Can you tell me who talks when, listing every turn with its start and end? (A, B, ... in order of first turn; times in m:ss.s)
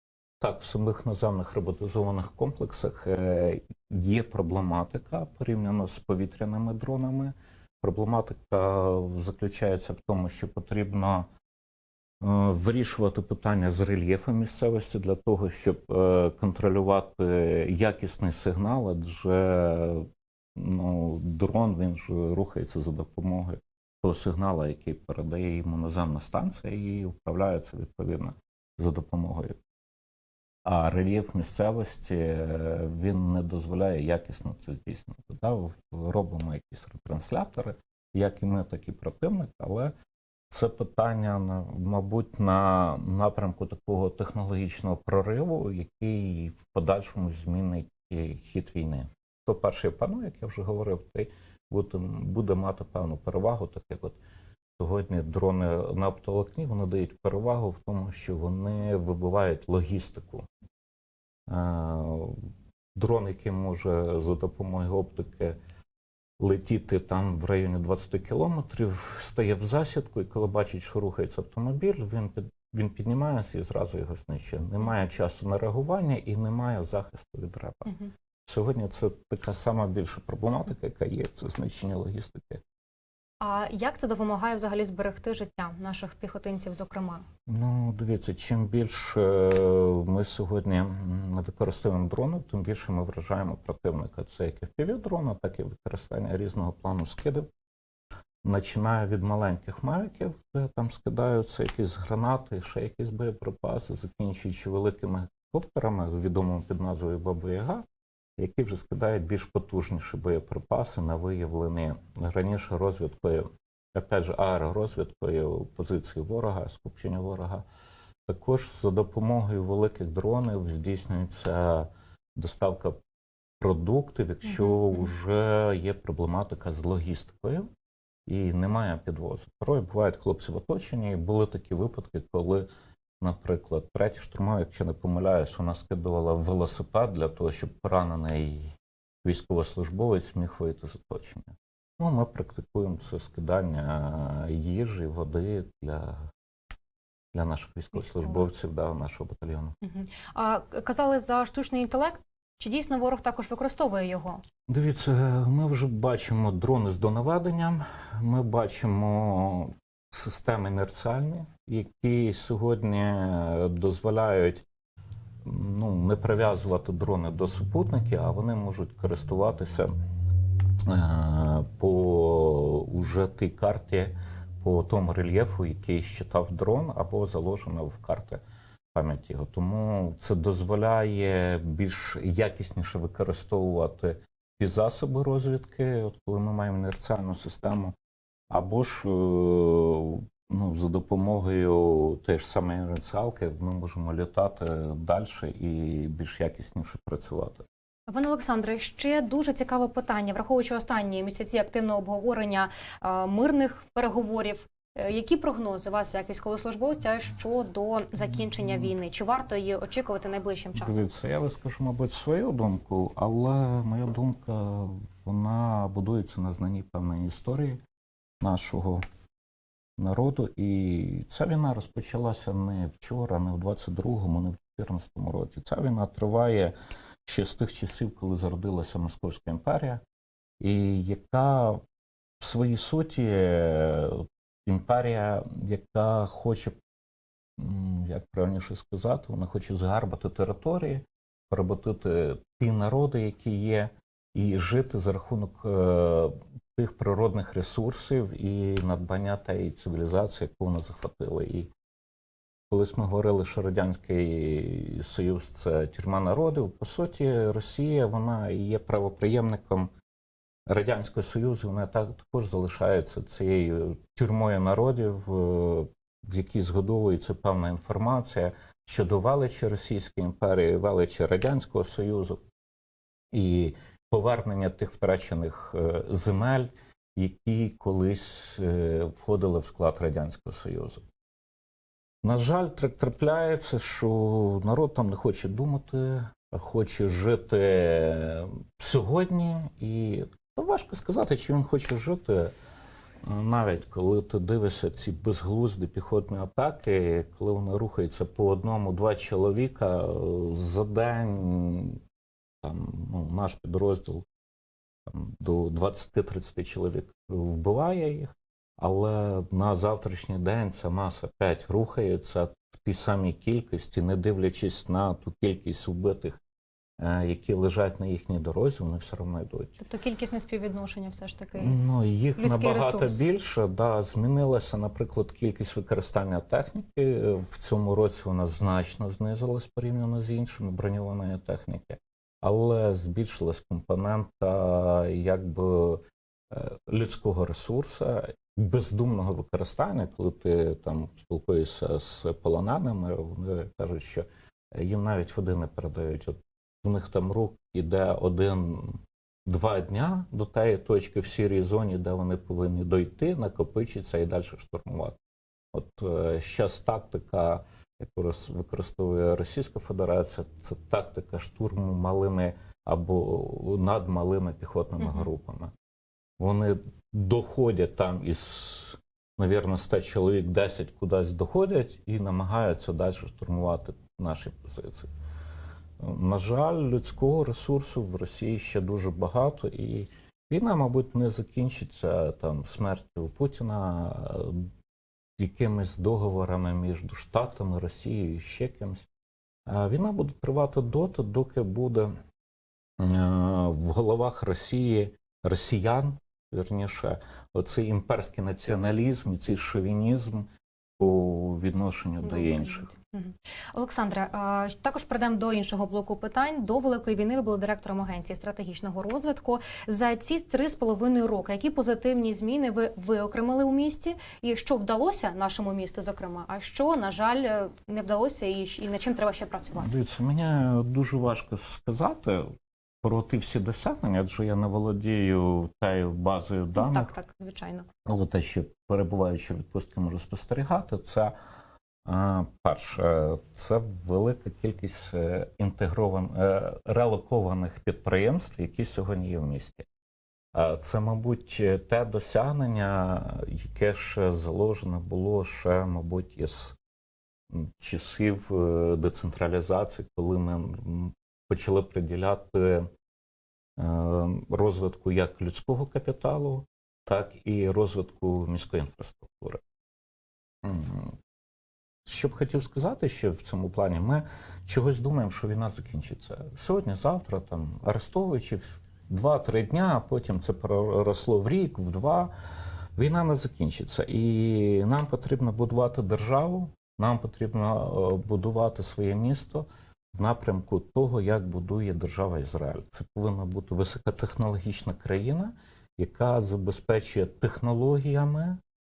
0:00.4-0:11.3 A
0:12.2-0:29.6 A
0:30.6-0:39.9 A
0:40.5-0:54.2 A
0:54.8-1:00.5 A
1:01.5-1:02.4 A
1:03.0-1:05.6 A
1:06.4-1:17.9 A
1:17.9-1:18.1 B
1:18.5-1:22.6 A
1:23.4-1:27.3 B
1:27.5-1:37.5 A
1:38.4-1:47.8 A
1:48.4-1:57.6 A
1:58.3-2:03.0 A
2:03.6-2:07.7 A
2:04.5-2:05.0 B
2:08.3-2:12.7 A
2:13.2-2:18.7 A
2:19.2-2:26.3 A
2:27.3-2:29.8 A
2:28.0-2:28.4 B
2:29.8-2:34.4 B
2:34.7-2:44.7 A
2:45.4-2:49.9 A
2:50.8-2:58.4 A
2:58.9-3:08.0 A
3:08.5-3:17.6 A
3:18.1-3:31.1 B
3:30.8-3:37.8 A
3:38.4-3:39.0 A
3:40.0-3:46.7 A
3:47.2-3:50.0 A
3:50.6-3:51.8 A
3:52.4-3:56.8 A
3:57.6-4:11.7 A
4:12.7-4:19.9 A
4:20.7-4:32.4 A
4:33.3-4:41.1 A
4:42.2-4:52.5 A
4:53.2-5:02.0 A
5:02.6-5:04.3 A
5:05.1-5:16.4 A
5:17.0-5:19.8 A
5:19.8-5:21.8 B
5:21.6-5:55.2 A
5:22.4-5:23.2 B
5:55.7-6:05.7 A
6:05.0-6:05.3 B
6:06.4-6:15.1 A
6:16.0-6:24.7 A
6:25.4-6:29.1 A
6:29.7-6:32.2 A
6:33.0-6:40.5 A
6:41.0-6:42.9 A
6:42.2-6:59.9 B
6:59.8-7:07.1 A
7:06.8-7:07.9 B
7:08.0-7:11.3 A
7:12.0-7:19.9 A
7:20.5-7:26.8 A
7:27.5-7:32.9 A
7:33.8-7:39.6 A
7:40.6-7:41.2 A
7:42.0-7:52.3 A
7:53.0-8:08.6 A